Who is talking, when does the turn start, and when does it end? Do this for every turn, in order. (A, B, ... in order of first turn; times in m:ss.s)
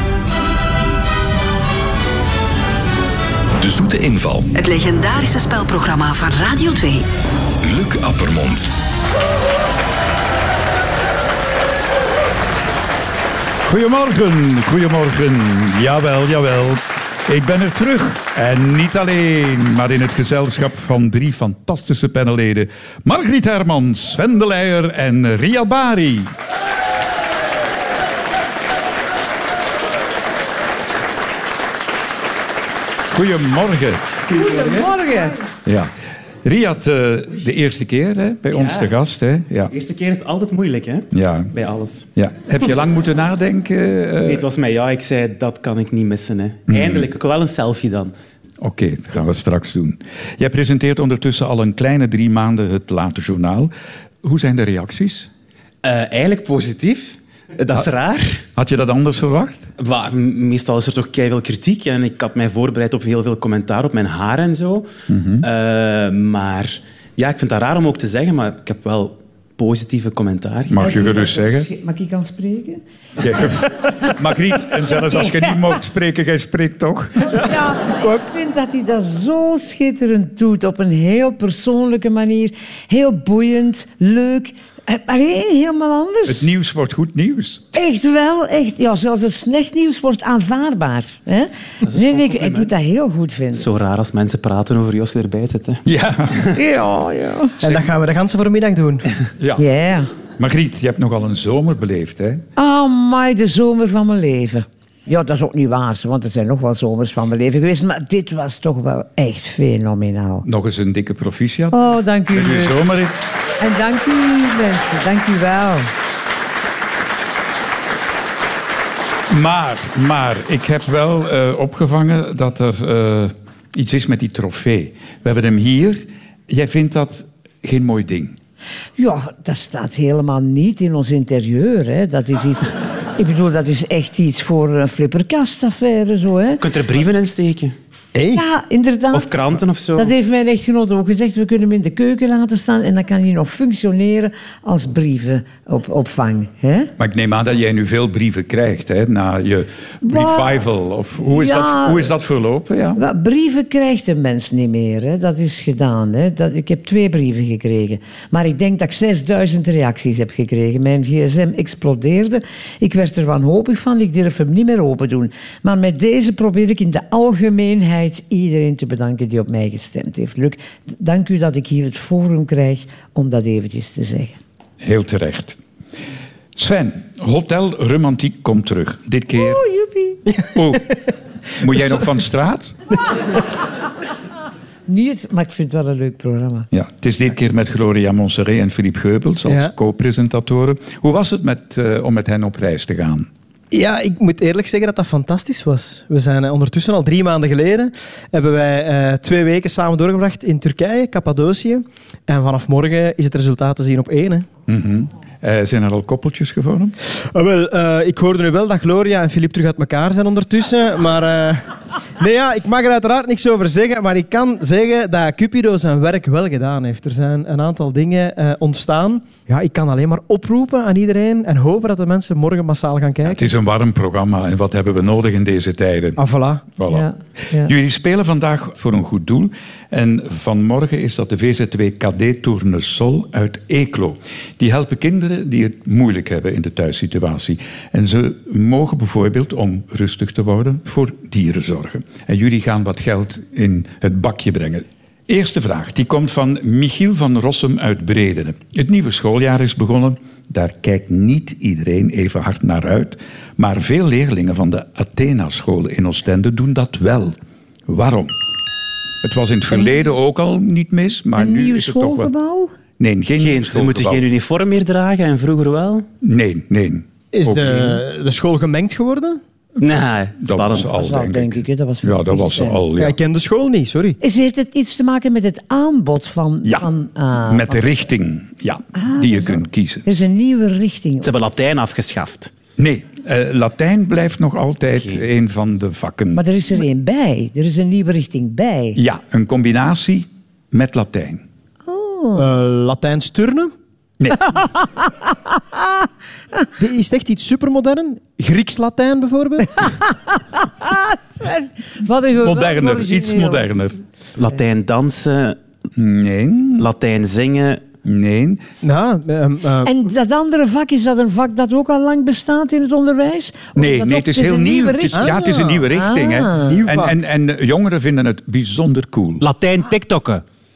0:03.6-0:04.5 A
0:04.6-0:07.1 B
0:07.6-0:08.7 A
0:13.6-0:26.3 C
0:33.1-0:34.2 C
0:34.3-0:35.4 D
0:34.4-0:34.9 E
0:35.7-0:35.9 C
0:36.4-0:39.7 C
0:38.5-0:38.9 E
0:39.7-0:42.1 E
0:41.1-0:41.5 C
0:42.1-0:44.5 C
0:44.2-0:48.1 E
0:46.7-0:47.1 C
0:48.6-0:53.7 C
0:54.2-0:55.3 C
0:55.8-0:58.4 E
0:58.6-0:59.7 C
0:59.8-1:04.9 E
1:05.1-1:05.5 C
1:05.4-1:10.8 E
1:10.7-1:11.7 C
1:10.8-1:12.8 D
1:13.2-1:17.4 C
1:14.9-1:15.5 D
1:17.3-1:26.5 D
1:26.3-1:27.7 C
1:27.7-1:33.8 D
1:31.9-1:32.7 E
1:33.6-1:35.8 E
1:35.9-1:36.5 C
1:36.5-1:37.6 D
1:37.6-1:39.1 F
1:39.4-1:39.7 C
1:39.6-1:40.1 D
1:40.4-1:42.4 C
1:42.6-1:50.5 D
1:50.4-1:53.1 C
1:51.7-1:52.8 D
1:53.6-1:55.9 D
1:59.3-2:08.4 C
2:09.0-2:16.6 D
2:16.6-2:17.8 E
2:18.2-2:18.4 F
2:18.3-2:19.4 D
2:19.1-2:20.1 E
2:20.0-2:26.9 D
2:27.0-2:33.0 C
2:30.0-2:30.6 D
2:31.3-2:32.1 D
2:33.0-2:54.4 D
2:54.8-2:55.6 C
2:56.6-2:59.6 C
2:59.3-3:00.2 D
3:00.5-3:01.0 C
3:01.6-3:02.8 C
3:04.9-3:06.7 D
3:06.7-3:13.3 C
3:09.5-3:09.7 F
3:13.7-3:24.5 F
3:24.7-3:27.0 C
3:27.2-3:43.5 F
3:43.2-3:46.2 C
3:46.2-3:46.6 F
3:46.8-4:18.3 C
3:46.9-3:47.7 D
4:19.2-4:22.3 C
4:21.4-4:22.7 D
4:23.0-4:24.3 C
4:23.4-4:26.1 E
4:26.2-4:28.0 C
4:27.3-4:29.4 F
4:29.8-4:30.9 E
4:30.4-4:33.2 C
4:30.8-4:32.8 D
4:33.0-4:34.2 F
4:34.2-4:37.8 D
4:37.5-4:40.1 C
4:39.0-4:41.3 D
4:41.2-4:42.5 E
4:42.8-4:46.4 C
4:46.4-4:49.0 D
4:49.0-4:51.4 C
4:51.9-4:52.5 D
4:52.4-4:53.7 F
4:54.2-4:54.5 C
4:54.6-4:55.1 D
4:56.8-4:59.9 F
5:00.3-5:03.6 D
5:02.4-5:04.0 C
5:04.4-5:05.6 E
5:06.0-5:06.9 C
5:06.8-5:07.8 E
5:08.0-5:08.6 C
5:08.8-5:09.9 F
5:09.8-5:16.8 D
5:13.8-5:19.4 C
5:15.1-5:15.6 F
5:16.7-5:17.2 F
5:19.4-5:20.4 E